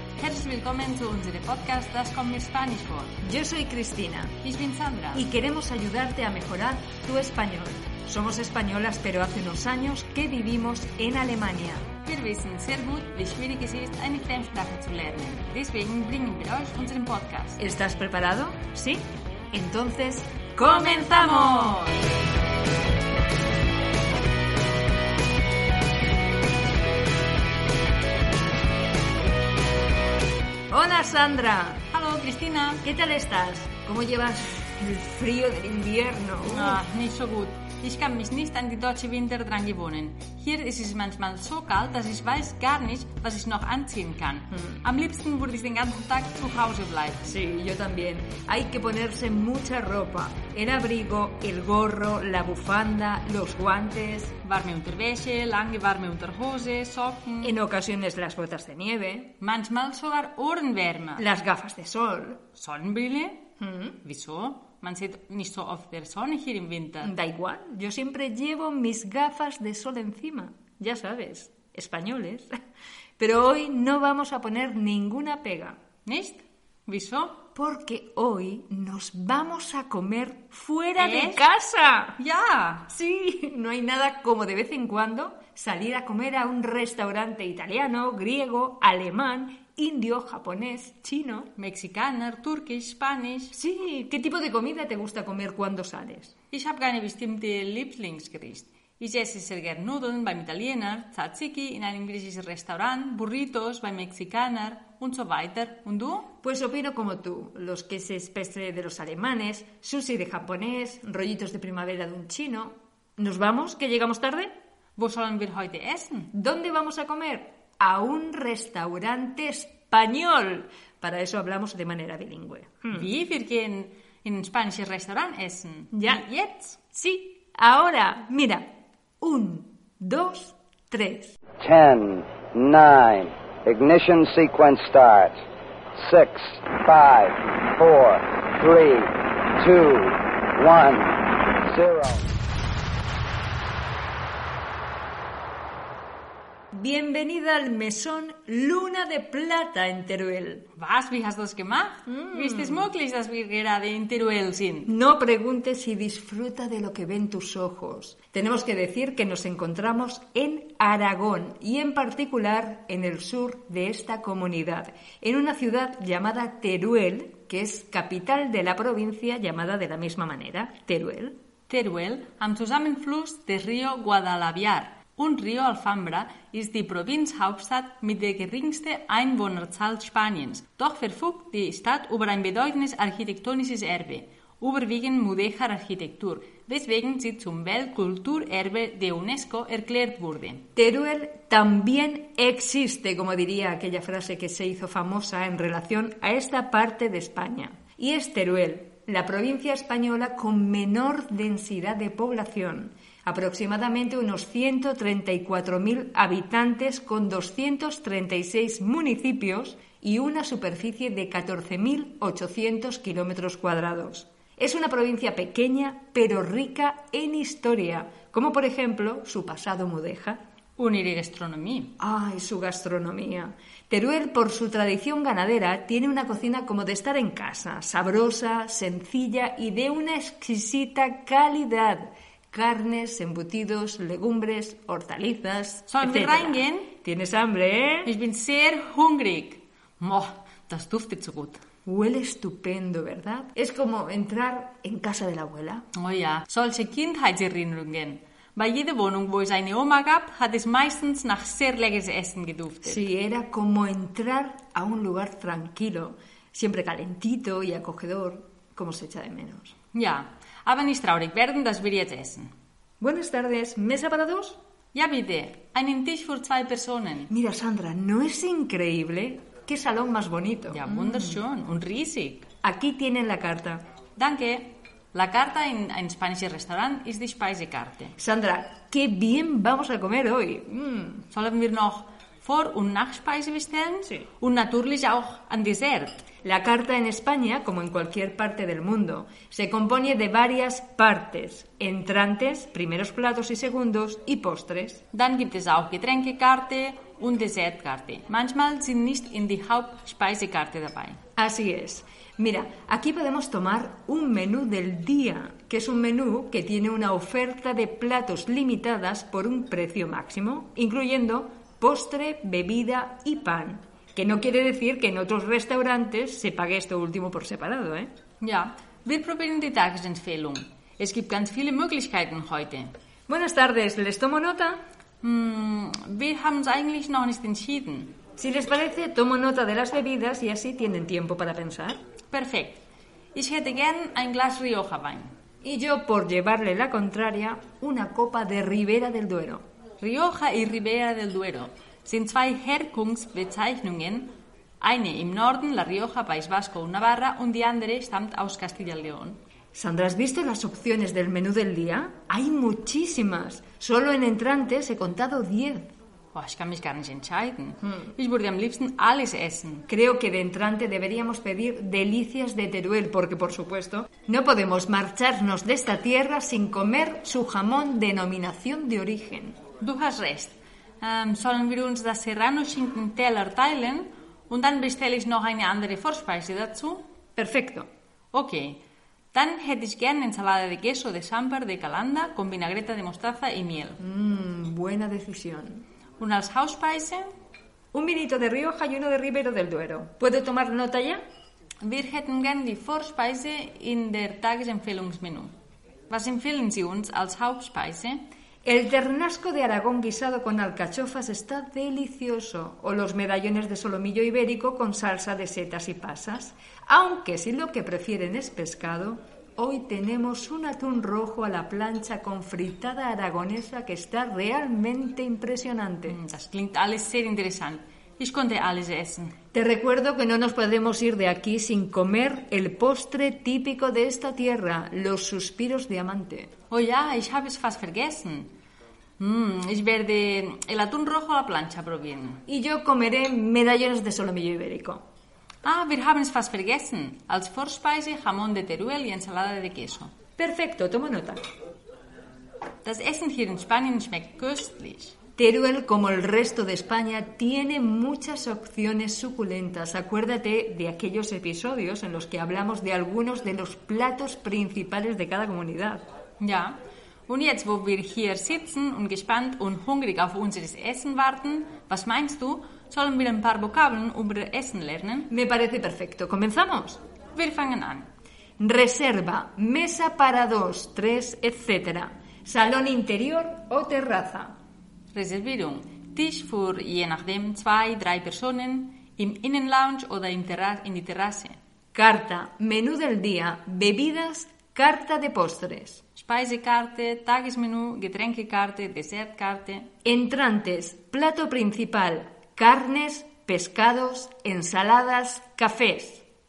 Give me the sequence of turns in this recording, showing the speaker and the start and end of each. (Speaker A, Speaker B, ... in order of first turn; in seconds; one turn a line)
Speaker A: 0.2-3.2
Speaker B: 3.2-4.3
Speaker A: 4.4-5.2
Speaker B: 5.1-11.8
Speaker A: 12.0-17.6
Speaker B: 17.6-21.8
Speaker A: 20.6-22.0
Speaker B: 30.7-31.8
Speaker A: 31.9-32.8
Speaker B: 32.8-36.8
Speaker A: 36.5-47.3
Speaker B: 47.2-54.4
Speaker A: 54.4-57.5
Speaker B: 57.4-59.3
Speaker A: 59.4-61.2
Speaker B: 61.2-62.4
Speaker A: 62.5-63.5
Speaker B: 63.6-64.0
Speaker A: 64.0-67.1
Speaker B: 67.0-72.5
Speaker B: 73.2-75.8
Speaker A: 76.0-77.5
Speaker B: 77.5-82.2
Speaker A: 81.0-81.5
Speaker A: 82.2-82.9
Speaker B: 82.9-91.5
Speaker A: 91.6-93.5
Speaker B: 93.5-96.3
Speaker A: 96.5-106.3
Speaker B: 106.4-114.5
Speaker A: 115.0-116.3
Speaker B: 116.3-123.1
Speaker A: 122.9-126.8
Speaker B: 125.9-126.2
Speaker B: 126.9-128.7
Speaker B: 129.2-131.4
Speaker C: 131.6-135.4
Speaker C: 136.0-142.2
Speaker B: 146.7-150.7
Speaker A: 150.7-154.9
Speaker B: 152.1-152.9
Speaker B: 154.8-171.3
Speaker A: 171.7-190.7
Speaker B: 190.8-220.4
Speaker A: 220.8-221.9
Speaker B: 222.0-238.1
Speaker A: 235.9-236.9
Speaker A: 238.0-241.6
Speaker B: 241.8-245.8
Speaker A: 245.9-253.0
Speaker B: 252.8-259.7
Speaker A: 259.9-262.5
Speaker B: 263.0-264.6
Speaker A: 264.9-267.3
Speaker B: 267.3-271.4
Speaker A: 270.7-272.5
Speaker B: 272.6-273.8
Speaker A: 274.2-278.1
Speaker B: 278.2-281.2
Speaker A: 281.3-286.2
Speaker B: 286.4-295.0
Speaker A: 295.1-301.2
Speaker B: 301.4-318.1
Speaker A: 318.4-322.9
Speaker B: 323.3-324.8
Speaker A: 325.2-328.1
Speaker B: 328.4-332.0
Speaker A: 332.3-332.8
Speaker A: 333.3-335.3
Speaker B: 335.6-339.6
Speaker A: 340.0-349.4
Speaker B: 349.7-355.9
Speaker A: 356.3-359.9
Speaker B: 359.9-369.6
Speaker A: 369.8-377.0
Speaker B: 377.4-377.9
Speaker A: 378.3-378.8
Speaker A: 379.3-384.0
Speaker B: 384.0-385.8
Speaker A: 386.2-387.3
Speaker B: 387.9-391.2
Speaker A: 391.8-395.5
Speaker A: 396.1-398.2
Speaker B: 398.6-416.2
Speaker A: 416.1-419.4
Speaker B: 419.5-426.5
Speaker A: 426.7-428.5
Speaker A: 429.2-432.4
Speaker B: 432.5-435.0
Speaker A: 435.6-440.1
Speaker B: 440.4-441.4
Speaker A: 442.8-445.2
Speaker B: 445.4-456.0
Speaker A: 456.4-456.8
Speaker A: 457.3-465.3
Speaker B: 465.3-467.0
Speaker A: 467.3-468.1
Speaker B: 468.6-474.5
Speaker A: 475.1-481.6
Speaker B: 481.9-486.0
Speaker A: 486.1-489.9
Speaker B: 490.0-496.2